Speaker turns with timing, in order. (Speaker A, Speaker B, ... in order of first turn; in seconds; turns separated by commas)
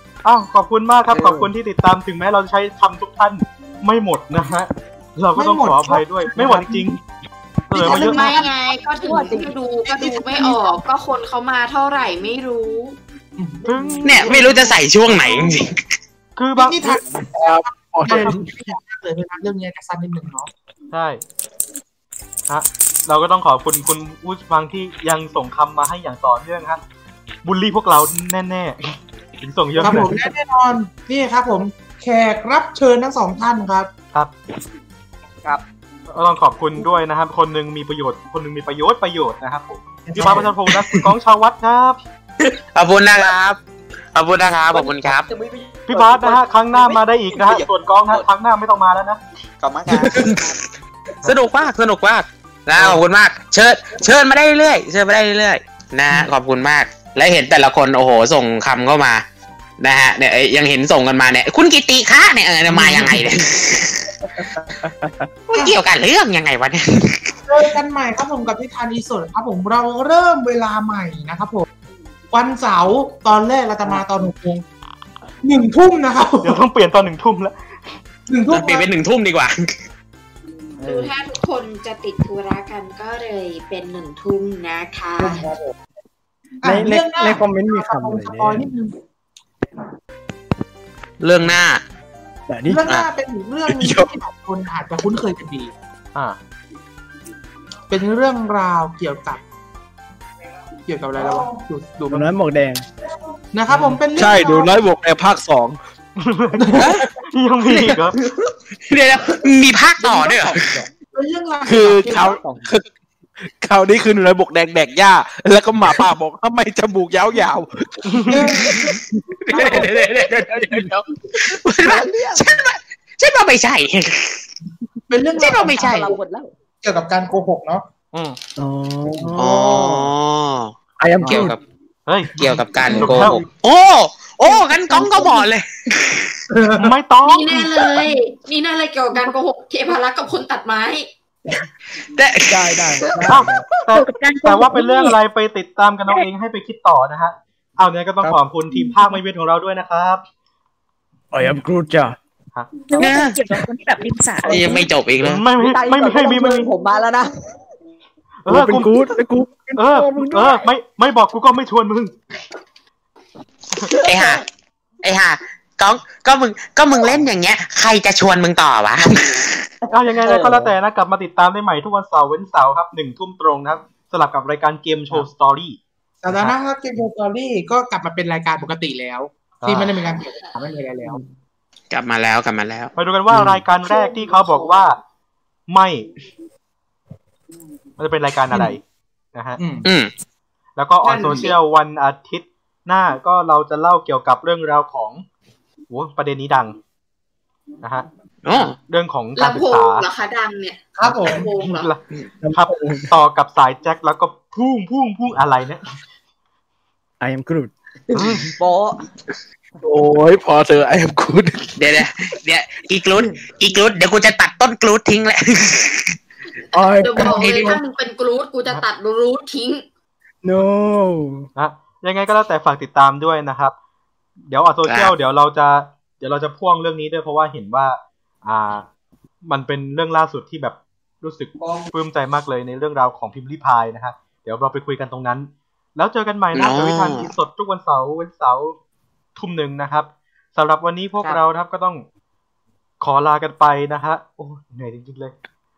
Speaker A: 0.2-7.0, Speaker B: 1.1-1.5, Speaker C: 5.3-7.0, Speaker A: 7.7-8.2, Speaker C: 7.7-8.5, Speaker D: 7.8-13.0, Speaker E: 9.0-10.6, Speaker C: 9.9-10.6, Speaker C: 13.4-13.7, Speaker A: 13.7-14.4, Speaker F: 14.0-15.8, Speaker D: 14.2-14.7, Speaker A: 16.4-17.0, Speaker C: 16.6-20.5, Speaker G: 17.3-18.5, Speaker A: 18.1-18.7, Speaker A: 20.9-21.2, Speaker A: 22.5-26.8, Speaker A: 27.4-28.8, Speaker A: 29.4-30.2, Speaker C: 29.8-33.9, Speaker A: 36.1-42.0, Speaker C: 40.0-40.5, Speaker F: 42.7-43.6, Speaker F: 44.1-45.3, Speaker E: 44.7-48.3, Speaker A: 45.9-49.2, Speaker E: 49.6-50.6, Speaker F: 51.2-59.2, Speaker F: 59.8-64.1, Speaker B: 62.9-63.1, Speaker B: 64.3-65.2, Speaker F: 65.5-67.3, Speaker C: 67.5-71.7, Speaker C: 72.3-74.6, Speaker C: 75.4-76.6, Speaker A: 76.4-77.5, Speaker C: 78.3-78.9, Speaker F: 78.5-79.5, Speaker E: 80.8-81.1, Speaker D: 80.8-85.4, Speaker C: 85.2-85.8, Speaker C: 86.6-88.9, Speaker B: 86.6-88.7, Speaker F: 91.2-91.8, Speaker B: 92.5-92.8, Speaker C: 92.7-95.7, Speaker G: 93.7-94.1, Speaker C: 97.9-99.4, Speaker C: 100.9-102.3, Speaker B: 102.1-102.8, Speaker C: 103.5-104.7, Speaker A: 103.7-104.0, Speaker G: 104.1-105.8, Speaker A: 106.2-106.8, Speaker G: 106.7-107.0, Speaker A: 107.3-108.2, Speaker E: 107.7-108.5, Speaker F: 108.9-110.8, Speaker E: 110.0-110.8, Speaker C: 111.1-112.4, Speaker G: 111.7-112.9, Speaker E: 112.1-112.7, Speaker G: 113.5-118.4, Speaker A: 118.1-118.4, Speaker C: 118.3-118.8, Speaker F: 119.4-124.4, Speaker B: 119.5-119.9, Speaker E: 121.5-122.4, Speaker C: 125.1-126.1, Speaker F: 125.4-126.1, Speaker E: 125.8-126.5, Speaker C: 126.8-127.8, Speaker B: 128.6-130.1, Speaker F: 129.3-130.7, Speaker B: 131.0-131.6, Speaker F: 131.3-131.6, Speaker A: 132.1-133.4, Speaker F: 132.4-136.3, Speaker B: 132.8-133.4, Speaker H: 134.7-135.4, Speaker C: 136.5-136.9, Speaker A: 136.8-137.7, Speaker D: 137.2-141.1, Speaker B: 142.4-143.7, Speaker A: 143.3-150.2, Speaker H: 143.9-145.2, Speaker H: 148.7-149.2, Speaker B: 151.3-152.2, Speaker A: 152.5-152.9, Speaker H: 152.9-154.9, Speaker F: 153.0-153.5, Speaker F: 154.4-155.4, Speaker A: 155.2-156.7, Speaker E: 155.6-157.3, Speaker A: 158.4-159.1, Speaker B: 158.5-160.6, Speaker A: 159.8-162.1, Speaker E: 163.8-164.4, Speaker F: 164.0-164.4, Speaker F: 165.0-169.6, Speaker E: 169.8-170.7, Speaker A: 169.9-175.8, Speaker C: 176.2-181.2, Speaker A: 179.6-179.9, Speaker F: 181.9-182.9, Speaker A: 182.9-185.0, Speaker A: 185.7-186.1, Speaker A: 188.0-188.8, Speaker A: 189.3-189.6, Speaker C: 189.6-189.9, Speaker F: 189.8-190.1, Speaker A: 190.8-195.2, Speaker C: 191.0-191.5, Speaker D: 191.0-191.6, Speaker A: 195.9-196.8, Speaker A: 197.8-198.1, Speaker F: 198.4-198.7, Speaker A: 198.9-200.1, Speaker D: 199.4-201.9, Speaker C: 201.0-201.5, Speaker A: 201.6-205.8, Speaker B: 202.4-203.2, Speaker B: 207.2-208.2, Speaker A: 208.1-208.5, Speaker E: 208.3-209.0, Speaker G: 209.8-211.7, Speaker F: 211.8-216.1, Speaker B: 216.7-217.7, Speaker D: 217.0-219.8, Speaker F: 217.2-217.8, Speaker B: 220.4-221.4, Speaker A: 221.6-223.7, Speaker A: 224.5-228.8, Speaker F: 224.8-225.1, Speaker A: 229.4-238.8, Speaker F: 236.5-237.3, Speaker A: 239.3-242.0, Speaker A: 243.0-245.3